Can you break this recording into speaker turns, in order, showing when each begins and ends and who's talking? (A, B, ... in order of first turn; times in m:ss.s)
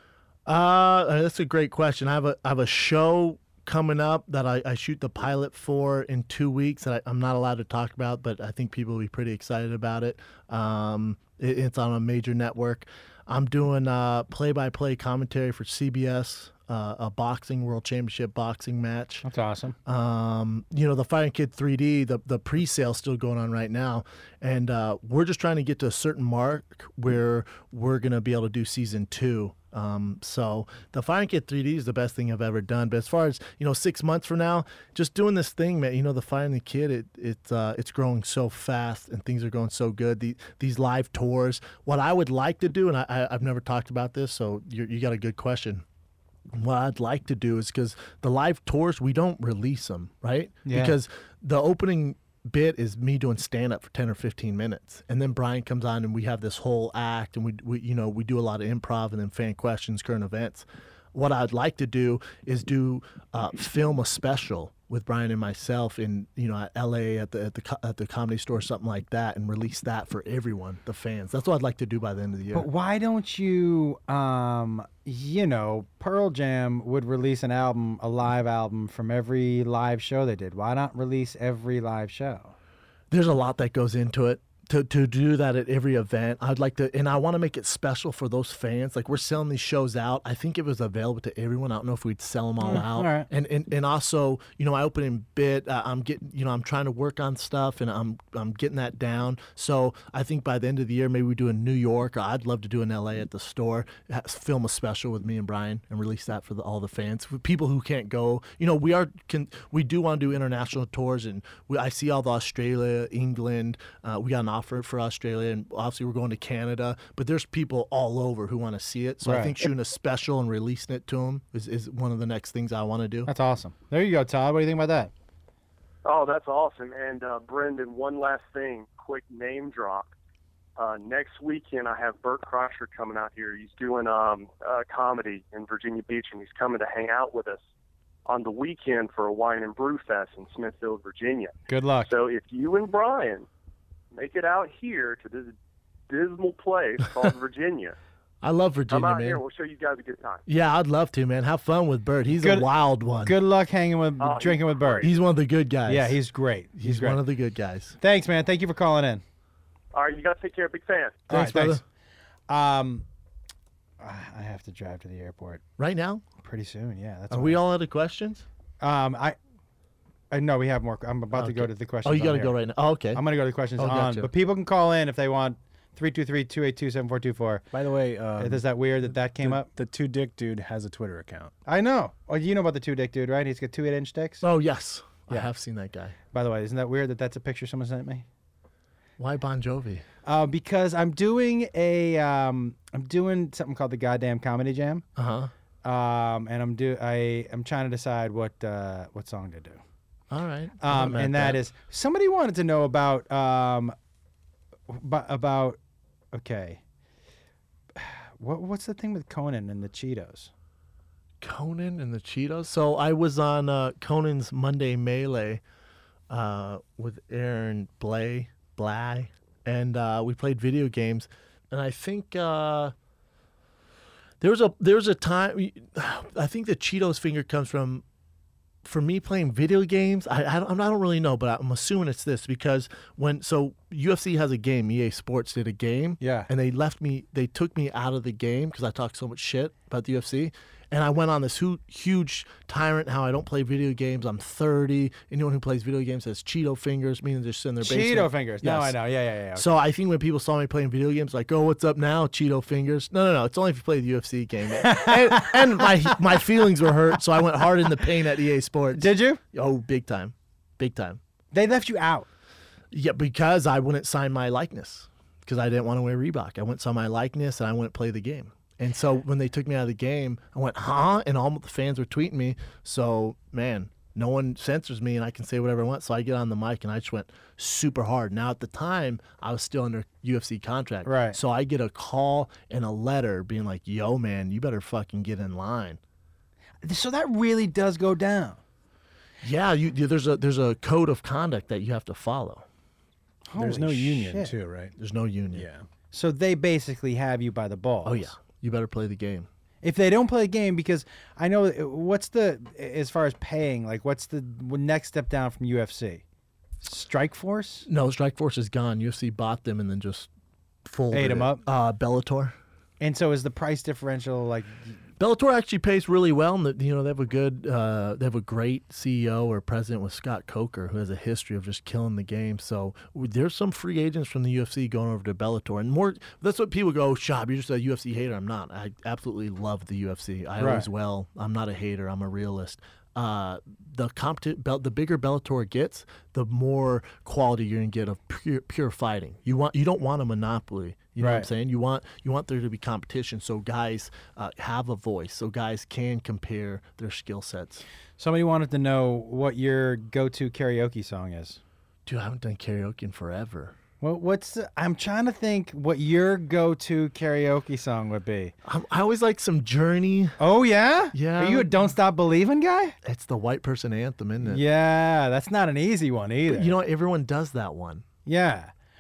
0:00.5-0:19.2 A
0:19.2-0:19.8 B
0:19.8-0:45.8 A
0:46.5-1:12.7 A
0:50.7-0:51.0 B
1:12.5-1:22.6 B
1:23.1-2:03.3 A
1:32.6-1:33.3 B
1:59.2-1:59.7 B
2:03.3-2:05.1 B
2:06.0-2:10.1 C
2:10.8-2:17.6 C
2:18.3-2:23.5 C
2:21.7-2:22.1 B
2:24.1-2:25.6 C
2:26.1-2:28.0 C
2:28.4-2:29.4 A
2:28.9-2:30.4 C
2:30.5-2:33.3 A
2:32.4-2:32.7 B
2:33.2-2:35.1 B
2:34.2-2:35.1 C
2:35.0-2:36.2 A
2:35.9-2:37.2 B
2:36.8-2:38.0 A
2:38.0-2:39.2 B
2:39.9-2:41.2 C
2:41.3-2:41.8 A
2:41.3-2:41.8 B
2:42.5-2:43.0 B
2:44.0-2:45.6 B
2:45.8-2:46.2 A
2:46.4-2:47.6 B
2:47.3-2:48.4 A
2:48.8-2:49.4 B
2:50.3-2:52.6 B
2:51.3-2:53.2 A
2:53.1-2:57.7 B
2:53.8-2:54.3 A
2:57.7-2:58.6 D
2:58.4-2:59.7 B
2:59.4-3:01.5 D
3:01.7-3:04.4 B
3:04.4-3:06.2 A
3:06.3-3:08.3 B
3:09.2-3:10.0 A
3:10.2-3:15.0 B
3:15.2-3:15.5 A
3:15.8-3:19.8 B
3:20.3-3:21.6 A
3:20.8-3:24.0 B
3:24.9-3:25.8 B
3:26.3-3:26.8 B
3:28.0-3:30.5 B
3:31.4-3:35.6 A
3:36.3-3:42.9 A
3:44.4-3:48.0 A
3:48.8-4:09.0 A
3:56.2-3:56.5 B
4:07.8-4:09.7 B
4:09.6-4:21.2 A
4:14.8-4:16.1 B
4:19.0-4:19.4 B
4:21.5-4:22.3 B
4:22.9-4:46.0 A
4:41.0-4:41.4 B
4:46.8-4:48.6 B
4:49.4-4:52.7 A
4:53.5-4:54.5 B
4:53.6-4:54.9 D
4:55.0-4:55.7 A
4:55.5-4:55.9 D
4:56.1-4:58.3 B
4:58.0-4:59.5 A
4:59.8-5:06.2 B
5:06.8-5:07.9 B
5:07.9-5:10.3 A
5:10.8-5:12.6 A
5:11.1-5:11.6 B
5:13.0-5:15.0 B
5:15.2-5:47.8 A
5:30.6-5:30.9 B
5:41.2-5:41.5 B
5:48.2-5:51.6 B
5:52.1-5:53.8 A
5:54.0-5:58.5 B
5:58.6-6:00.4 A
6:00.4-6:03.0 B
6:01.1-6:01.8 A
6:03.0-6:04.6 A
6:04.4-6:06.8 B
6:06.5-6:08.0 A
6:08.3-6:08.7 B